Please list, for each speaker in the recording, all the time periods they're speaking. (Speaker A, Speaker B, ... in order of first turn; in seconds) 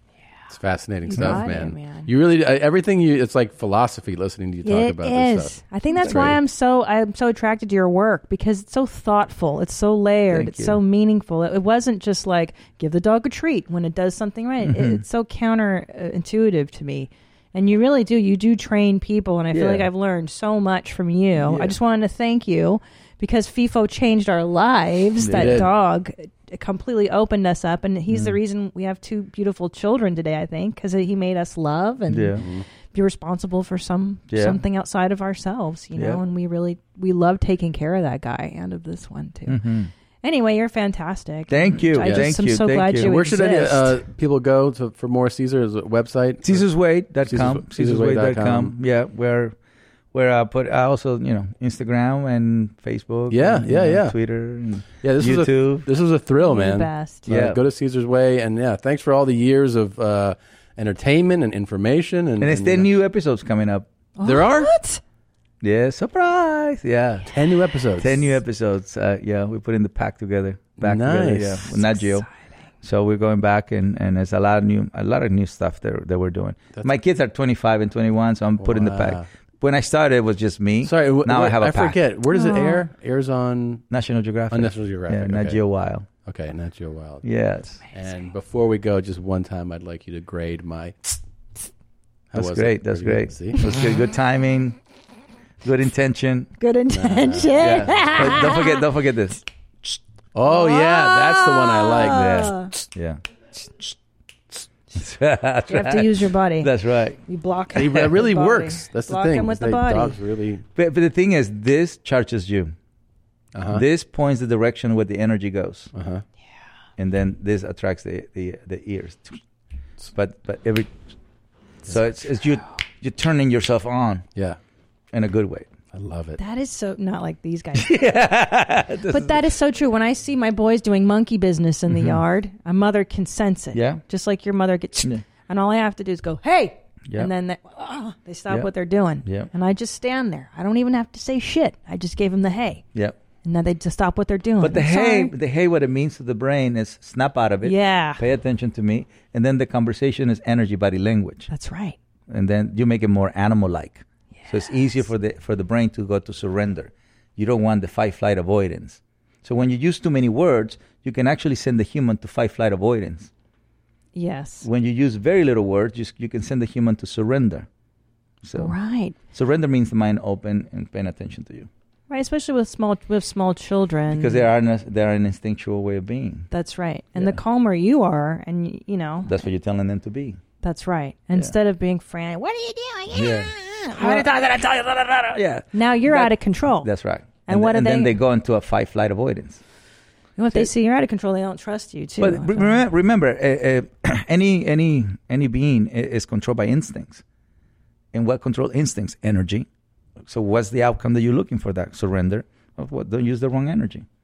Speaker A: 0.5-6.4, 25.3-25.7, 32.4-32.6, 42.0-42.4, 43.0-46.7, 47.2-48.8, 53.3-54.2, 55.0-62.9, 64.2-64.7, 67.3-68.3, 70.8-71.7, 78.6-79.3, 80.8-83.8, 84.5-85.6, 86.2-87.3, 87.9-91.1, 92.3-93.9, 96.9-98.5, 100.3-102.7, 107.7-110.7, 113.5-113.8, 115.9-116.2, 125.9-126.4
Speaker B: 1.1-2.1, 4.6-39.6, 40.2-44.0, 56.4-57.3, 64.2-65.0, 71.6-72.7, 82.3-82.9, 96.6-98.8, 100.5-102.7, 105.7-106.7, 107.3-110.2, 126.4-127.9, 129.1-142.8, 143.4-145.3, 147.6-148.2, 151.5-152.0, 154.4-155.0, 164.2-164.7, 168.6-169.2, 172.1-174.5, 176.5-179.3, 180.6-186.9, 187.5-188.2, 190.4-192.8
Speaker C: 1.1-1.4, 6.0-6.3, 10.3-10.8, 14.6-15.0, 19.5-19.9, 21.4-21.8, 25.2-25.6, 32.1-32.4, 34.3-34.6, 36.0-36.2, 39.5-39.9, 41.5-43.1, 46.4-49.5, 50.1-55.9, 57.3-57.6, 62.4-63.9, 65.6-67.3, 68.0-72.3, 72.8-82.0, 83.9-86.1, 87.2-87.8, 92.3-94.8, 95.6-96.5, 97.5-99.4, 102.0-103.2, 105.0-107.2, 110.8-112.7, 113.7-115.9, 117.0-119.4, 120.2-120.9, 121.9-124.2, 125.1-125.7, 127.8-129.5, 131.9-132.2, 133.7-134.0, 144.6-151.5, 152.3-163.3, 164.6-167.7, 168.4-168.7, 169.3-171.7, 174.1-176.5, 179.2-180.4, 183.1-184.6, 185.3-189.6, 192.2-197.2, 198.1-199.7, 200.3-204.1